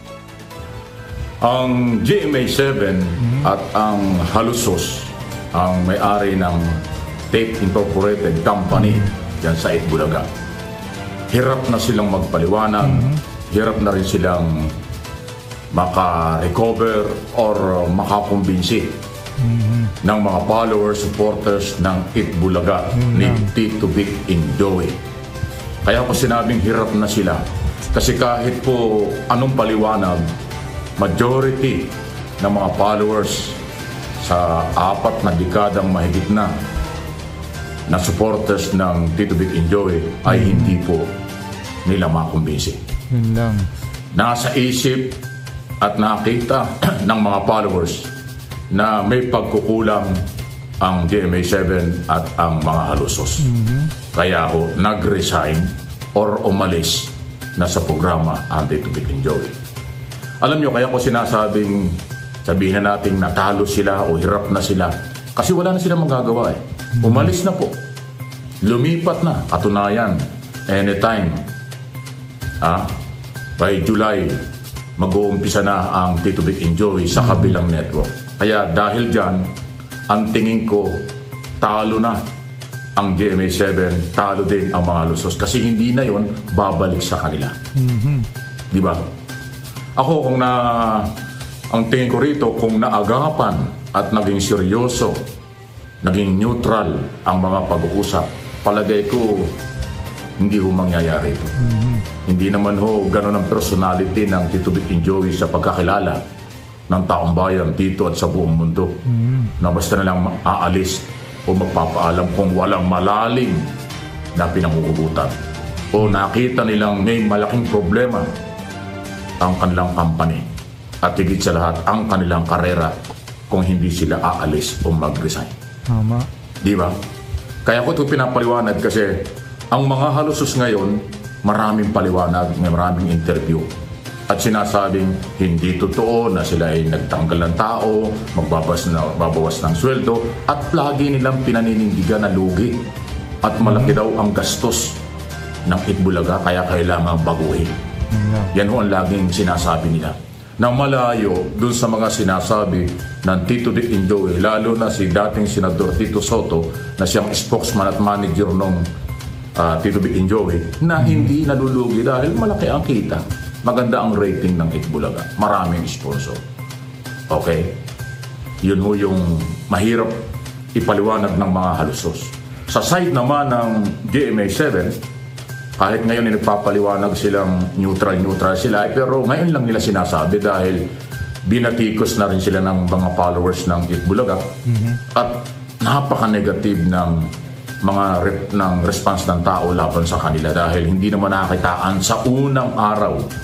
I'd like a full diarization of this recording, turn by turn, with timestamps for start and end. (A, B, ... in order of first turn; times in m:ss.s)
0:01.4-0:06.8 A
0:03.2-0:03.5 B
0:07.3-0:10.2 A
0:08.8-0:09.1 B
0:11.3-0:14.7 A
0:12.8-0:13.2 B
0:15.7-0:19.0 A
0:19.4-0:19.9 B
0:20.0-0:25.0 A
0:22.9-0:23.5 B
0:25.8-0:27.4 A
0:27.9-0:30.2 A
0:31.0-0:33.6 A
0:34.2-0:36.5 A
0:37.9-0:41.1 A
0:40.3-0:40.7 B
0:41.8-0:42.8 A
0:43.1-0:43.7 B
0:44.1-0:45.2 A
0:45.8-0:48.1 A
0:48.7-0:50.1 A
0:50.8-0:53.5 A
0:53.4-0:53.9 B
0:54.1-0:59.5 A
1:00.4-1:07.7 A
1:07.0-1:07.3 B
1:08.6-1:11.4 A
1:12.6-1:12.9 A
1:13.6-1:14.4 A
1:15.0-1:19.4 A
1:17.2-1:17.5 B
1:20.1-1:21.1 A
1:21.6-1:22.2 A
1:23.0-1:27.5 A
1:27.8-1:28.3 B
1:28.7-1:29.0 A
1:30.0-1:31.1 A
1:31.7-1:35.3 A
1:36.0-1:39.5 A
1:40.4-1:41.5 A
1:41.6-1:42.0 B
1:42.2-1:46.2 A
1:46.9-1:49.0 A
1:49.0-1:49.5 B
1:49.6-1:53.7 A
1:54.3-1:55.3 A
1:55.9-1:58.3 A
1:59.4-2:00.5 A
2:01.0-2:02.9 A
2:03.5-2:05.5 A
2:05.9-2:06.3 B
2:06.6-2:06.9 A
2:07.6-2:13.7 A
2:14.3-2:22.9 A
2:23.4-2:25.0 A
2:23.6-2:23.9 B
2:25.6-2:27.7 A
2:28.1-2:28.5 B
2:28.5-2:38.9 A
2:39.6-2:46.4 A
2:41.0-2:41.3 B
2:47.3-2:47.8 A
2:48.6-2:55.0 A
2:55.8-3:00.8 A
3:01.4-3:04.5 A
3:04.6-3:05.0 B
3:05.1-3:07.3 A
3:07.8-3:13.3 A